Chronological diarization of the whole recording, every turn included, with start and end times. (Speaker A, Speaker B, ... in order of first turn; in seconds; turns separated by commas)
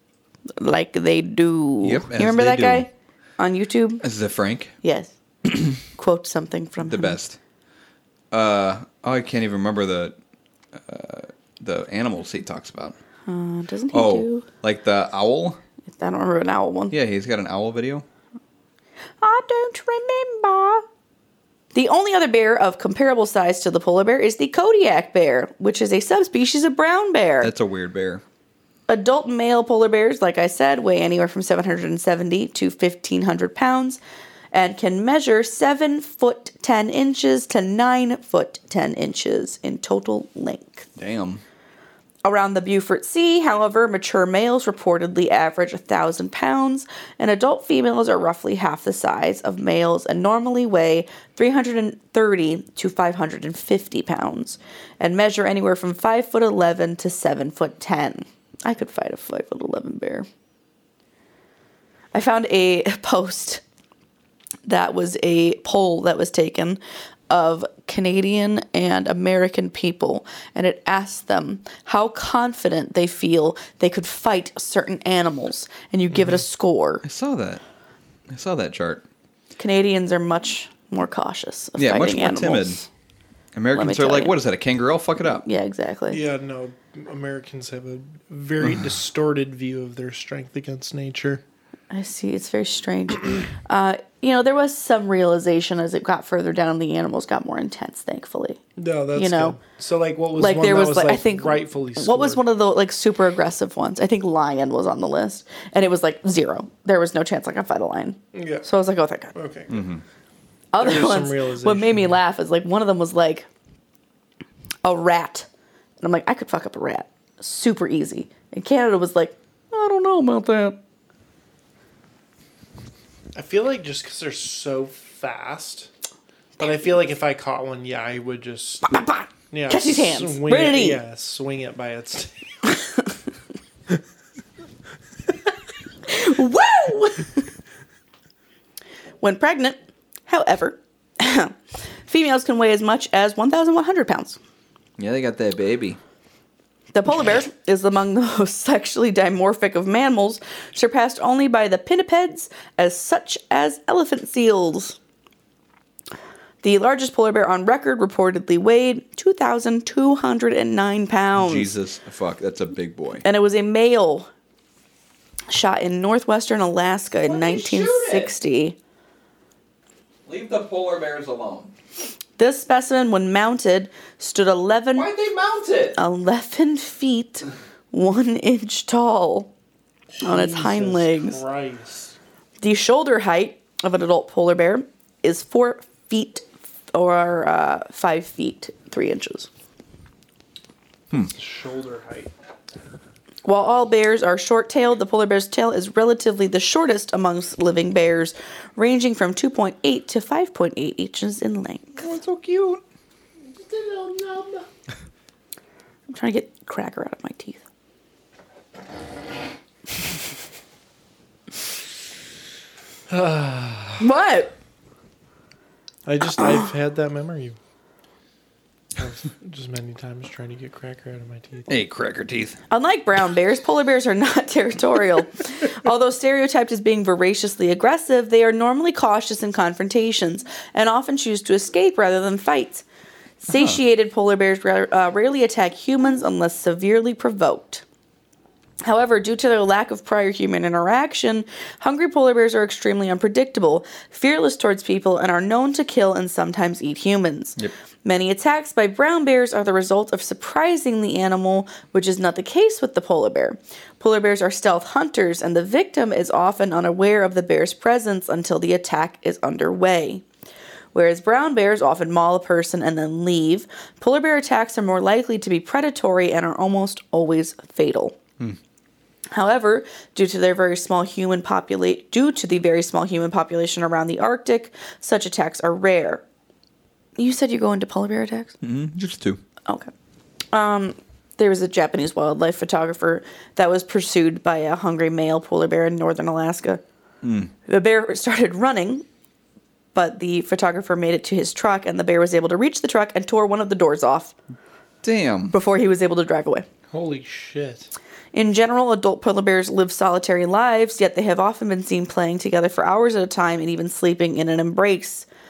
Speaker A: 0.6-4.0, Speaker B: 1.8-2.9, Speaker B: 4.0-4.7, Speaker A: 4.8-5.1, Speaker A: 5.8-7.2, Speaker B: 6.8-7.4, Speaker B: 8.3-10.2, Speaker B: 10.7-13.0, Speaker A: 13.3-14.4, Speaker B: 13.9-15.6, Speaker A: 15.9-16.9, Speaker B: 16.9-18.1, Speaker A: 19.2-20.9, Speaker A: 21.7-27.5, Speaker B: 27.4-28.2, Speaker A: 28.9-34.0, Speaker A: 34.5-40.9, Speaker B: 41.0-41.4, Speaker A: 42.2-60.3, Speaker A: 62.1-63.6, Speaker A: 64.7-66.8, Speaker A: 67.3-77.0, Speaker C: 76.1-76.4, Speaker B: 77.0-77.6, Speaker B: 78.3-79.0, Speaker A: 79.6-82.8, Speaker B: 81.8-82.8, Speaker B: 83.5-85.4, Speaker A: 83.7-84.3, Speaker A: 85.4-86.2, Speaker C: 86.1-91.4, Speaker A: 91.9-98.6, Speaker C: 98.8-102.4, Speaker A: 99.2-99.6, Speaker A: 100.4-109.3, Speaker C: 108.3-108.7, Speaker C: 109.3-109.8, Speaker B: 109.7-110.0, Speaker A: 110.7-113.5, Speaker C: 110.8-112.2, Speaker A: 114.8-115.5, Speaker A: 116.0-120.8, Speaker C: 123.3-125.9, Speaker C: 126.6-132.4, Speaker A: 128.9-131.0, Speaker A: 136.1-137.4, Speaker A: 139.2-141.6, Speaker A: 142.1-144.4, Speaker B: 145.0-146.0, Speaker A: 146.9-155.0, Speaker A: 156.6-161.7, Speaker B: 161.4-163.2, Speaker A: 163.2-164.3, Speaker A: 165.5-168.8, Speaker B: 167.2-168.3, Speaker B: 170.3-171.7, Speaker A: 172.4-175.1, Speaker B: 174.9-176.0, Speaker A: 176.0-179.5, Speaker A: 180.2-181.4, Speaker C: 180.2-182.2, Speaker A: 182.6-189.5, Speaker C: 191.3-192.3, Speaker A: 193.4-202.1, Speaker B: 202.0-202.8, Speaker C: 203.5-204.7, Speaker A: 206.1-207.6, Speaker C: 213.1-214.0, Speaker A: 214.0-214.5, Speaker C: 216.1-217.6, Speaker C: 219.0-221.7, Speaker B: 221.7-222.6, Speaker A: 222.7-232.8, Speaker A: 233.4-237.8, Speaker B: 233.5-233.8, Speaker A: 238.8-260.2, Speaker A: 260.9-268.2, Speaker A: 269.3-276.2, Speaker A: 277.2-278.6, Speaker B: 278.6-279.4, Speaker A: 280.5-286.8, Speaker B: 287.2-287.5, Speaker A: 287.7-289.1, Speaker A: 289.9-294.4, Speaker B: 295.0-295.5, Speaker A: 295.5-296.7, Speaker C: 296.9-297.9, Speaker A: 298.3-305.3